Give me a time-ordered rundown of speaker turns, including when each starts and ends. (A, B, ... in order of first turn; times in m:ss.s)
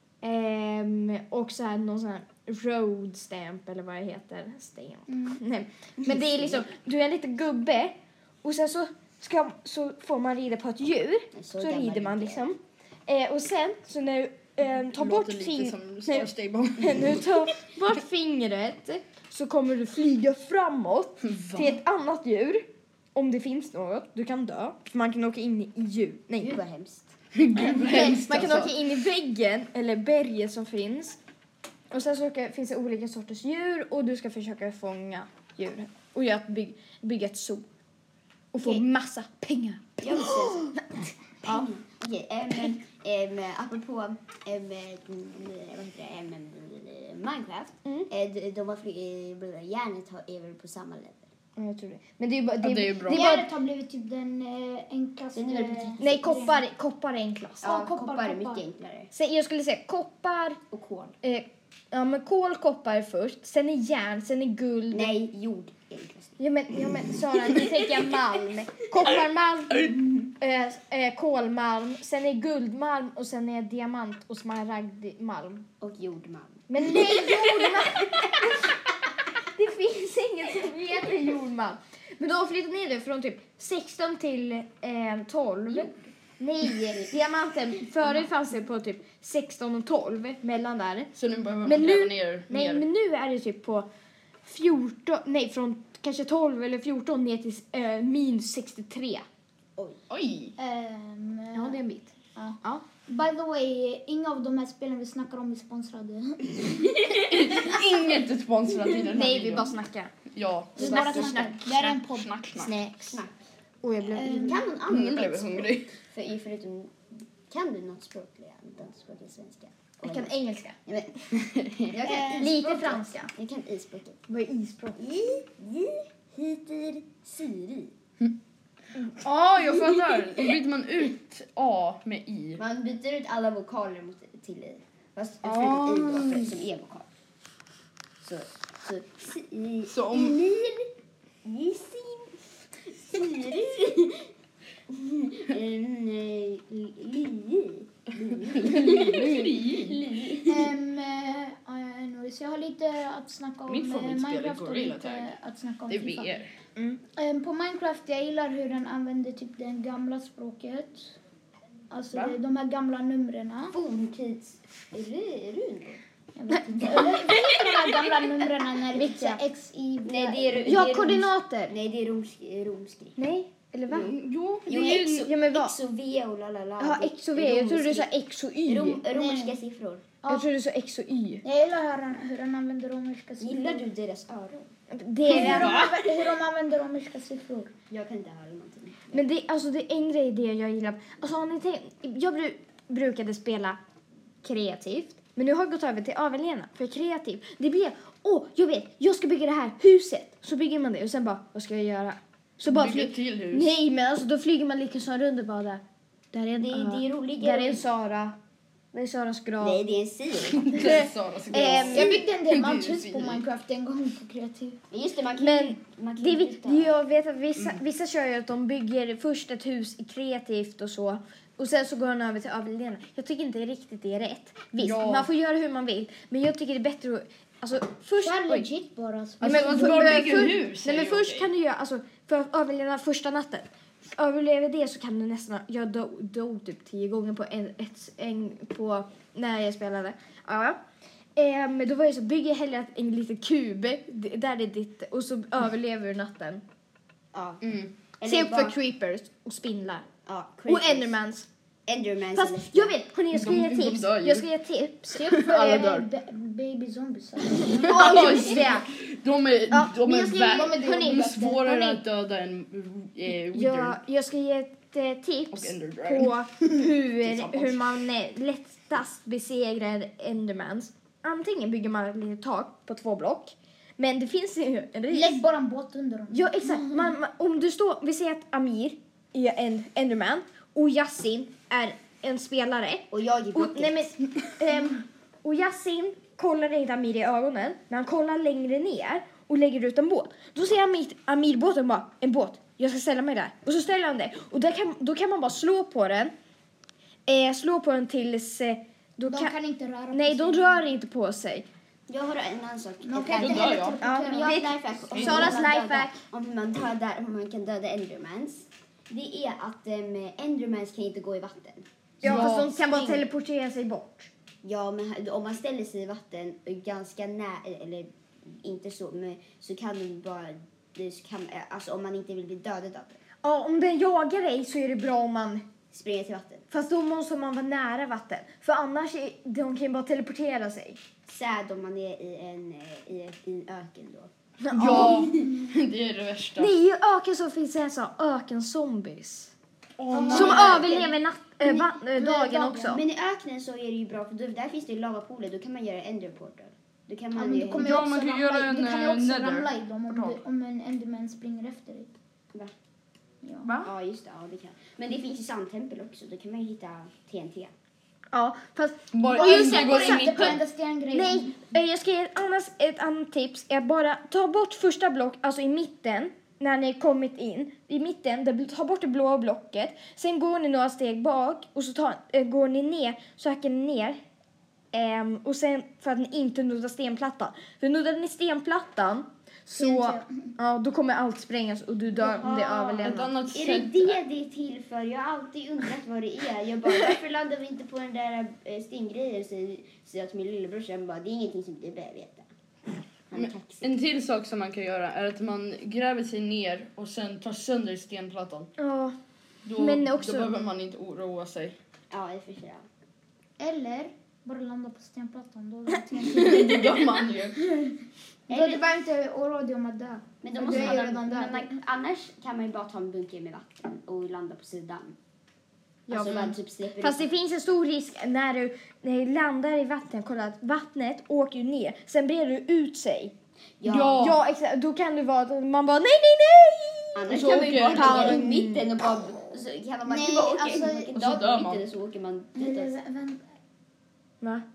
0:00.2-0:26.6 A
0:05.1-0:05.4 B
0:06.0-0:06.7 C
0:11.3-0:12.4 C
0:14.8-0:17.4 D
0:21.2-0:21.8 D
0:26.4-0:27.2 C
0:27.3-0:28.8 D
0:27.6-0:31.2 A
0:31.9-0:37.6 A
0:38.5-0:41.7 A
0:40.0-0:40.7 C
0:41.4-0:51.3 C
0:51.6-0:53.5 A
0:52.6-0:53.2 D
0:53.1-0:56.6 B
0:55.3-0:56.1 C
0:56.0-0:57.7 A
0:57.6-0:59.1 C
0:57.6-0:58.6 B
0:59.1-1:00.6 A
1:00.7-1:01.2 C
1:01.2-1:05.1 A
1:04.9-1:06.4 C
1:06.4-1:15.6 A
1:07.5-1:08.4 C
1:15.8-1:18.5 C
1:16.7-1:18.7 A
1:19.5-1:31.1 A
1:31.1-1:32.8 D
1:31.6-1:33.9 A
1:34.4-1:39.2 A
1:40.1-1:40.5 D
1:40.6-1:41.8 B
1:41.5-1:42.8 A
1:42.3-1:46.9 B
1:46.9-1:47.6 C
1:47.1-1:49.7 D
1:49.1-1:50.1 A
1:50.3-1:52.8 D
1:50.8-1:52.7 B
1:50.8-1:51.8 A
1:50.8-1:51.2 C
1:52.5-1:53.2 A
1:53.1-1:53.4 C
1:53.8-1:54.5 A
1:54.2-1:54.7 B
1:54.2-2:00.3 C
1:54.9-1:55.9 D
2:00.0-2:00.8 A
2:00.8-2:04.2 C
2:02.0-2:02.6 B
2:02.3-2:03.3 A
2:04.3-2:05.0 A
2:05.0-2:07.9 C
2:09.1-2:12.6 D
2:09.6-2:10.5 C
2:12.6-2:17.1 C
2:15.4-2:16.5 D
2:18.2-2:20.9 C
2:19.9-2:20.4 D
2:21.4-2:24.3 C
2:24.9-2:30.7 C
2:28.5-2:30.0 D
2:30.4-2:36.4 B
2:33.7-2:35.3 D
2:35.9-2:36.5 D
2:37.1-2:41.2 B
2:41.9-2:43.8 B
2:43.7-2:46.0 C
2:46.4-2:50.7 B
2:46.5-2:47.4 A
2:46.8-2:47.6 C
2:48.9-2:49.4 A
2:50.0-2:53.2 C
2:50.6-2:51.8 A
2:53.2-2:54.1 A
2:53.9-2:55.2 D
2:54.6-2:58.1 C
2:54.7-2:55.8 A
2:56.8-2:59.0 A
2:58.6-3:00.1 C
2:59.1-2:59.6 B
3:00.3-3:01.4 A
3:01.4-3:03.8 B
3:03.4-3:04.7 C
3:04.9-3:05.8 A
3:05.3-3:07.7 B
3:05.3-3:06.1 D
3:07.9-3:09.2 C
3:09.1-3:13.8 A
3:14.4-3:25.8 A
3:22.6-3:23.7 D
3:26.3-3:28.3 A
3:26.6-3:27.8 C
3:28.9-3:29.8 A
3:29.6-3:31.0 C
3:30.5-3:33.4 D
3:30.7-3:32.1 A
3:31.5-3:32.1 C
3:31.6-3:34.8 B
3:34.9-3:36.9 C
3:35.4-3:48.6 A
3:44.8-3:45.3 D
3:48.2-3:50.5 B
3:49.4-3:51.5 D
3:49.4-4:00.8 A
4:01.4-4:06.6 A
4:07.3-4:07.6 C
4:07.6-4:07.9 D
4:08.2-4:08.8 C
4:08.2-4:10.1 A
4:10.2-4:11.1 C
4:10.7-4:11.5 A
4:11.9-4:13.0 C
4:12.3-4:15.9 A
4:13.3-4:14.5 D
4:15.1-4:18.6 B
4:15.3-4:16.0 D
4:17.6-4:18.9 A
4:17.7-4:24.0 D
4:19.7-4:22.0 A
4:20.4-4:21.4 B
4:23.5-4:35.4 A
4:25.5-4:27.8 D
4:35.1-4:37.1 B
4:36.3-4:56.3 A
4:43.1-4:44.1 C
4:57.2-4:59.5 A
4:59.3-5:00.8 B
5:00.1-5:01.6 A
5:02.1-5:13.2 C
5:03.0-5:04.7 B
5:03.3-5:04.0 D
5:04.0-5:06.2 A
5:05.1-5:05.6 D
5:12.2-5:14.3 A
5:12.2-5:12.7 D
5:14.6-5:23.2 C
5:23.4-5:25.6 A
5:25.9-5:26.7 C
5:26.7-5:31.0 A
5:31.2-5:34.3 C
5:34.6-5:35.3 A
5:34.7-5:36.7 D
5:34.8-5:35.5 C
5:36.6-5:39.5 A
5:40.0-5:40.8 D
5:40.1-5:41.0 B
5:40.2-5:41.8 C
5:40.3-5:43.0 A
5:41.7-5:43.0 B
5:42.8-5:47.9 C
5:47.3-5:52.1 B
5:47.7-5:50.4 D
5:53.4-5:53.7 B
5:53.6-5:53.9 D
5:53.8-5:57.7 C
5:58.3-6:00.6 A
5:59.1-6:00.6 D
5:59.3-6:01.6 B
6:01.1-6:14.2 A
6:14.9-6:23.3 A
6:19.8-6:20.5 B
6:22.1-6:32.5 C
6:23.0-6:24.2 D
6:33.3-6:33.9 C
6:33.4-6:38.7 D
6:38.8-6:39.1 A
6:39.6-6:41.8 D
6:39.8-6:40.5 A
6:42.1-6:42.8 C
6:43.6-6:48.0 B
6:46.3-6:47.6 D
6:48.5-6:48.8 C
6:48.5-6:51.7 B
6:50.4-6:55.2 C
6:50.6-6:51.2 A
6:56.1-7:03.3 A
6:56.1-6:57.2 C
6:56.2-6:56.5 D
7:03.8-7:04.3 C
7:03.8-7:04.4 D
7:04.2-7:08.8 A
7:07.1-7:12.9 C
7:07.3-7:08.4 D
7:10.0-7:11.2 B
7:11.1-7:11.8 D
7:12.5-7:13.4 B